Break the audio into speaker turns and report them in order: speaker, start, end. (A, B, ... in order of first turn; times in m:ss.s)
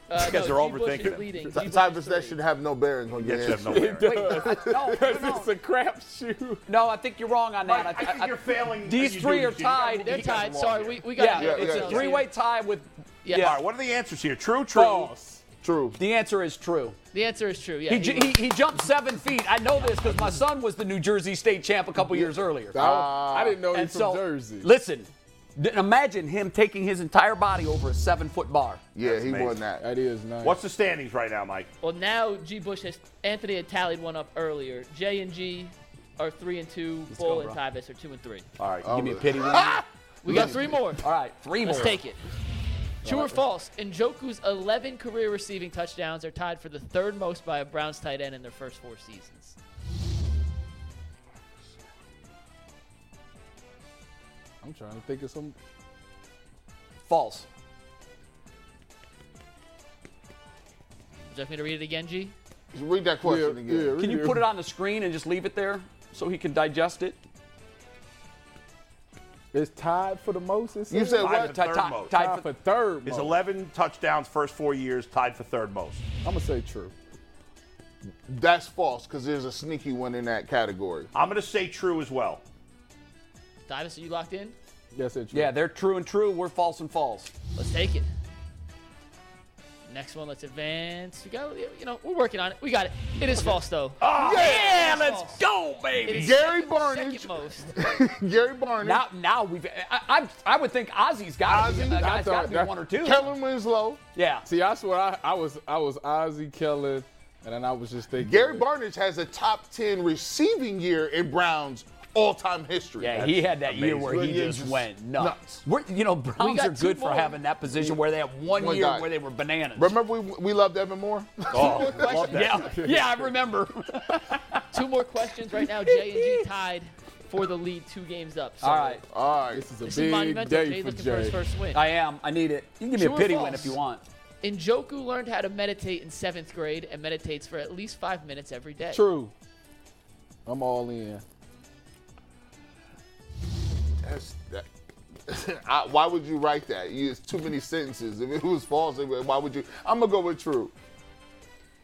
0:00.1-0:02.4 A
0:00.2-0:01.3 B
0:01.5-0:03.9 C
0:03.2-0:04.3 B
0:03.6-0:06.6 D
0:04.0-0:05.5 E
0:04.4-0:04.9 C
0:06.7-0:10.4 E
0:07.6-0:11.1 B
0:10.0-0:12.3 A
0:10.3-0:12.1 C
0:11.2-0:13.6 E
0:13.2-0:13.6 A
0:13.3-0:15.1 B
0:14.7-0:15.4 D
0:15.6-0:16.0 C
0:16.0-0:17.0 E
0:17.1-0:18.4 A
0:17.9-0:22.8 E
0:22.1-0:23.6 C
0:22.7-0:24.7 D
0:23.7-0:28.8 E
0:29.0-0:29.8 C
0:29.0-0:29.6 B
0:29.8-0:30.6 D
0:30.4-0:31.7 B
0:31.8-0:38.5 A
0:37.1-0:37.6 E
0:38.6-0:38.9 B
0:38.8-0:40.7 C
0:38.9-0:42.0 E
0:40.2-0:41.1 A
0:41.6-0:42.2 A
0:43.0-0:49.6 A
0:43.1-0:43.3 D
0:54.6-0:55.6 D
0:57.1-0:57.5 E
1:01.3-1:02.3 A
1:02.7-1:04.0 C
1:03.2-1:04.5 D
1:04.0-1:07.2 E
1:09.5-1:11.3 D
1:10.9-1:11.6 C
1:11.2-1:12.1 B
1:11.2-1:12.5 E
1:12.1-1:13.4 D
1:13.0-1:16.0 B
1:16.2-1:16.9 D
1:18.3-1:21.1 C
1:21.1-1:22.4 B
1:23.7-1:24.6 A
1:24.9-1:25.5 D
1:25.3-1:27.3 E
1:27.6-1:28.1 A
1:29.9-1:35.4 A
1:34.0-1:34.7 B
1:34.1-1:36.4 E
1:36.0-1:37.7 A
1:36.1-1:39.0 C
1:38.8-1:43.3 E
1:41.5-1:42.1 C
1:41.8-1:42.8 D
1:43.0-1:44.0 C
1:44.2-1:44.5 E
1:44.5-1:48.6 D
1:48.2-1:55.6 C
1:53.0-2:00.0 E
1:53.2-1:54.2 B
1:56.4-1:57.4 A
1:57.8-1:59.1 C
1:59.8-2:02.2 C
2:01.5-2:02.8 B
2:01.7-2:02.6 A
2:02.2-2:04.6 E
2:02.8-2:03.3 D
2:04.7-2:09.0 A
2:08.6-2:09.0 E
2:09.1-2:09.7 C
2:09.5-2:11.4 D
2:09.8-2:11.8 A
2:11.7-2:14.0 E
2:13.0-2:13.8 A
2:14.4-2:19.1 A
2:18.9-2:19.3 D
2:20.5-2:21.2 D
2:24.0-2:24.7 C
2:25.3-2:30.7 C